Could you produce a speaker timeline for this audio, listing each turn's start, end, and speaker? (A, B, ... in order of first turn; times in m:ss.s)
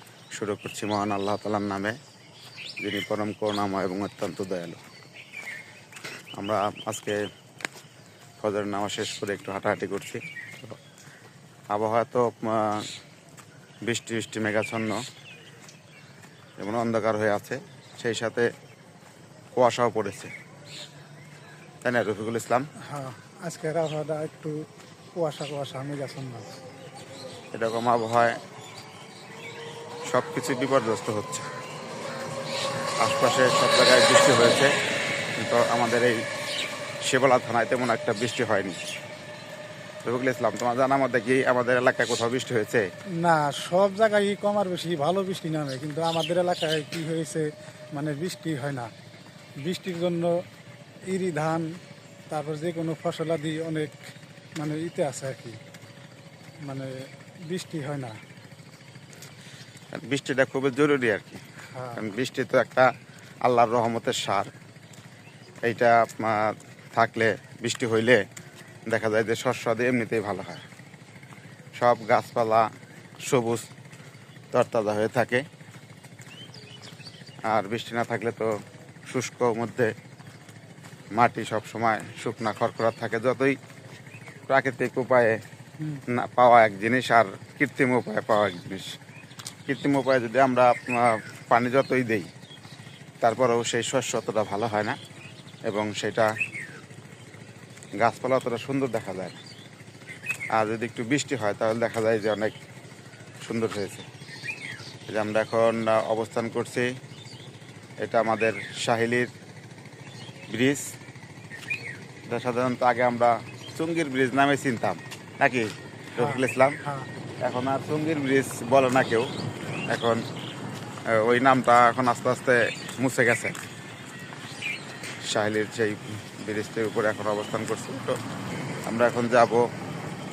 0:00.3-0:02.0 A
0:02.8-0:04.8 A
0:06.4-0:07.2 A
0:08.4-0:10.8 A
0:11.7-0:12.9 A
0:13.8-0:15.0 A
0:16.6-0:18.5 A
0:19.6-0:20.3 A
0:21.8-0:22.7 A
0:22.9-0:24.6 B
0:25.2-0:26.6 B
0:27.5-0:28.4 A
0:30.1-0:31.5 A
0:33.0-0:34.7 A
0:35.4-0:36.2 A
0:37.1-0:38.8 A
0:40.0-0:42.9 A
0:43.2-0:48.9 B
0:49.6-0:50.4 B
0:51.1-0:51.7 B
0:52.3-0:54.0 B
0:54.6-0:55.6 B
0:56.6-0:56.9 B
0:57.5-0:58.2 B
0:59.9-1:01.4 A
1:01.8-1:02.0 B
1:02.0-1:02.9 A
1:03.4-1:04.5 A
1:05.6-1:08.2 A
1:08.9-1:10.6 A
1:11.8-1:12.7 A
1:13.3-1:13.7 A
1:14.5-1:15.4 A
1:17.5-1:18.5 A
1:19.1-1:19.9 A
1:21.2-1:23.6 A
1:24.5-1:25.4 A
1:26.1-1:29.0 A
1:29.7-1:32.3 A
1:33.2-1:35.0 A
1:35.7-1:36.3 A
1:38.0-1:39.4 A
1:40.6-1:42.6 A
1:43.4-1:44.1 A
1:45.1-1:46.9 A
1:48.0-1:49.3 A
1:50.5-1:50.8 A
1:52.3-1:56.8 A
1:56.2-1:57.1 B
1:57.4-1:59.3 A
1:59.9-2:00.2 A
2:01.2-2:03.6 A
2:05.3-2:08.2 A
2:08.9-2:09.6 A